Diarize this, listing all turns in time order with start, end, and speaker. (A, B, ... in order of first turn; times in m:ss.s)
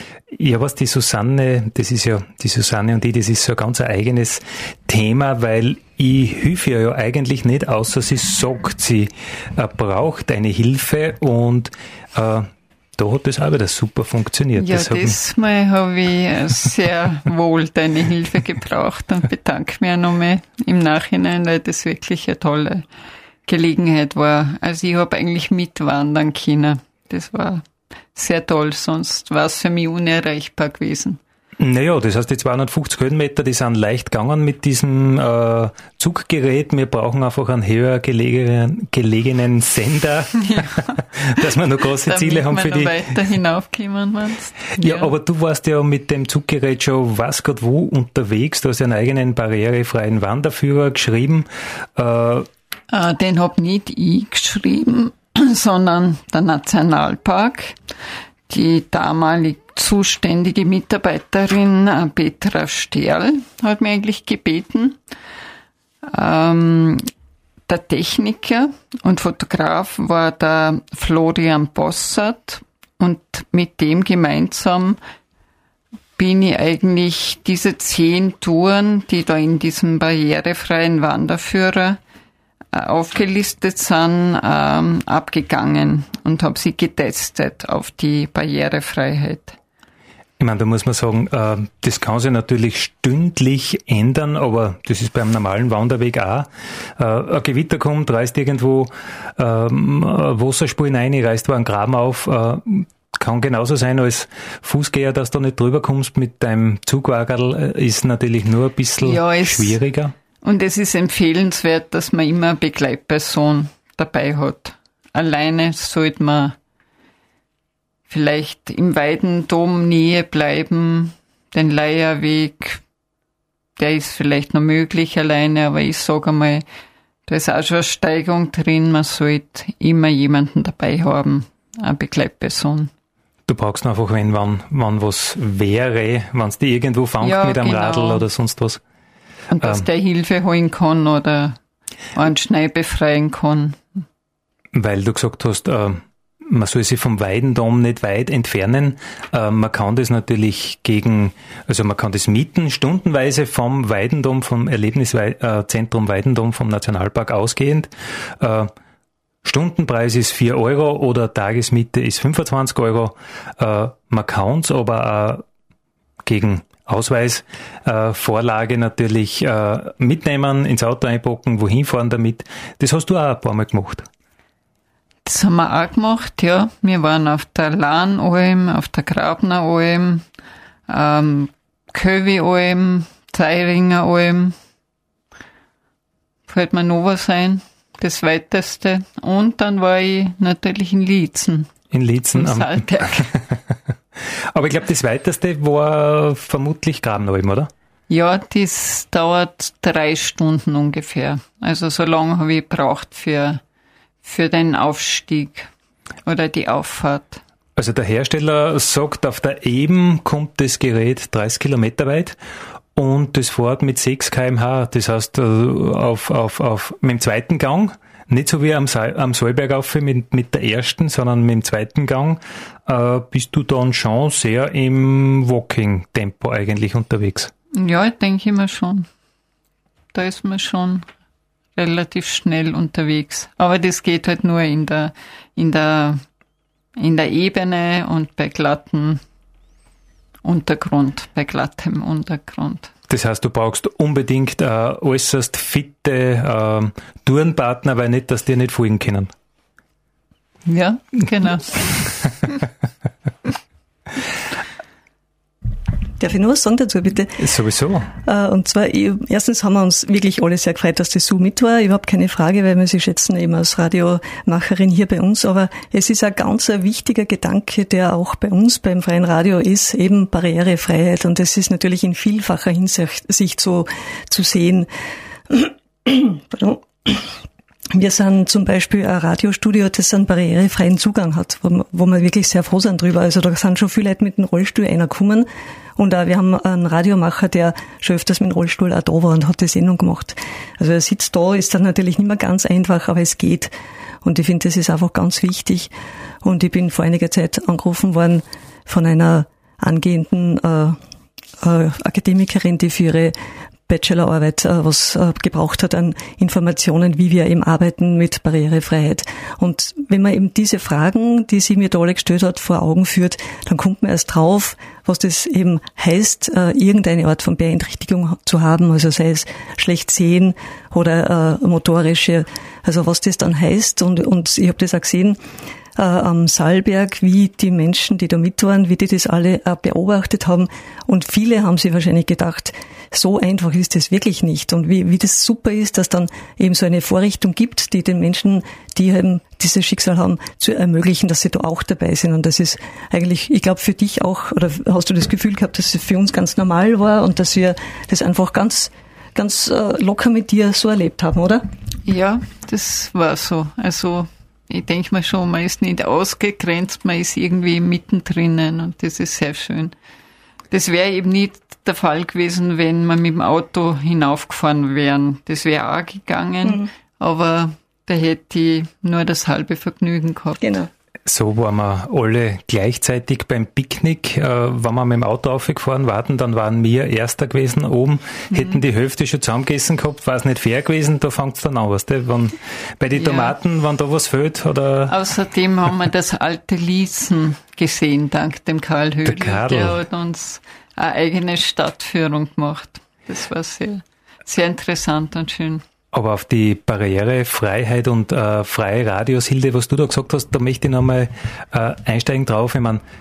0:00.3-0:15.2 A
0:14.6-0:22.8 B
0:23.5-0:31.2 B
0:31.6-0:43.0 A
0:40.5-0:41.0 B
0:41.9-0:45.1 B
0:44.8-0:52.5 A
0:52.9-0:57.8 B
0:58.5-1:05.0 B
1:06.0-1:07.1 B
1:07.7-1:15.0 B
1:16.2-1:22.0 B
1:22.7-1:29.6 B
1:30.4-1:50.1 A
1:49.0-1:49.8 B
1:50.4-1:56.6 B
1:58.1-2:02.8 B
2:03.8-2:06.6 B
2:07.3-2:12.9 B
2:13.5-2:18.8 A
2:17.2-2:18.3 B
2:19.5-2:21.6 B
2:19.6-2:19.9 A
2:22.1-2:23.8 B
2:24.7-2:38.7 A
2:39.4-2:45.4 A
2:46.2-2:54.1 A
2:55.2-3:00.2 B
3:00.9-3:04.6 B
3:06.5-3:11.7 B
3:11.9-3:13.6 A
3:12.3-3:13.3 B
3:14.2-3:17.7 A
3:18.1-3:23.6 B
3:24.2-3:25.7 B
3:26.2-3:27.4 B
3:27.8-3:32.4 A
3:33.0-3:47.5 A
3:47.7-3:49.1 B
3:50.1-3:51.0 B
3:51.8-3:56.2 B
3:57.0-3:59.2 B
4:00.4-4:02.9 B
4:03.1-4:09.3 A
4:10.7-4:12.0 B
4:16.2-4:17.4 C
4:17.4-4:18.1 A
4:18.2-4:34.9 C
4:35.5-4:37.3 C
4:37.9-4:53.7 C
4:54.2-4:55.9 C
4:56.4-5:01.0 C
5:01.6-5:03.3 C
5:03.9-5:25.4 C
5:26.0-5:51.6 C
5:52.1-5:59.9 B
6:00.7-6:10.6 B
6:06.6-6:06.9 C
6:10.6-6:10.9 C
6:11.3-6:25.2 A
6:23.2-6:23.6 B
6:25.1-6:35.8 B
6:29.2-6:30.0 A
6:36.1-6:43.0 A